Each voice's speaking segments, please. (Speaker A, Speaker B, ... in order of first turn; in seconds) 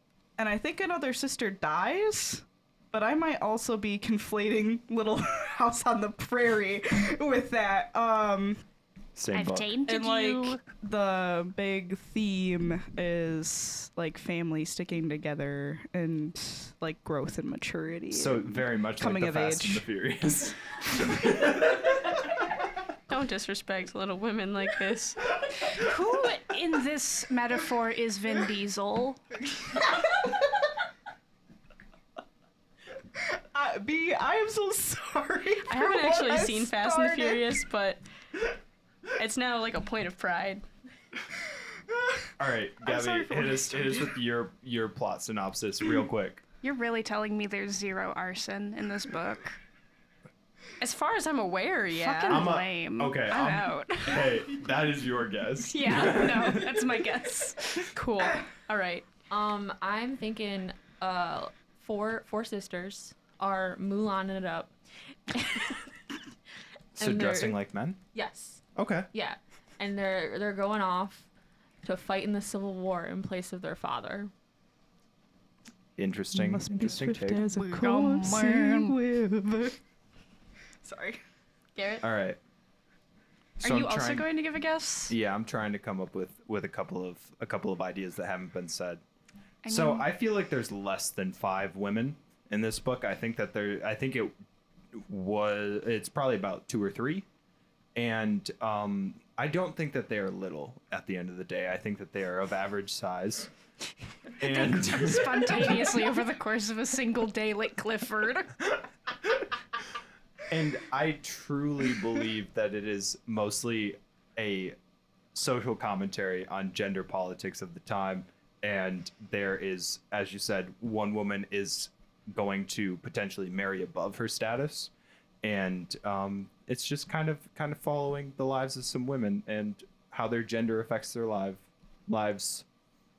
Speaker A: 0.4-8.6, 9.9-19.9, 33.5-37.5, 41.9-42.3, 43.0-43.5, 76.3-79.8, 80.8-81.2
Speaker B: 9.2-9.7, 18.1-22.0, 42.4-46.4, 52.3-56.9, 67.0-68.0, 68.8-69.1, 76.0-77.5, 82.0-82.4, 83.6-84.3, 85.1-89.0, 89.7-94.3, 94.9-97.3, 98.0-103.5, 104.4-105.9, 110.5-114.8, 115.3-124.9, 125.4-132.7
Speaker C: 9.3-10.6, 25.6-29.2, 43.4-43.7, 46.6-49.6, 51.9-54.3, 55.7-57.9, 77.5-79.0, 83.6-85.2, 89.6-90.1, 104.4-108.6
Speaker D: 23.1-25.3, 35.7-38.0, 39.2-40.6, 50.8-52.5, 57.9-59.1, 81.8-82.0
Speaker E: 59.3-64.7, 65.3-65.8, 67.0-67.6, 68.1-71.3, 71.8-74.3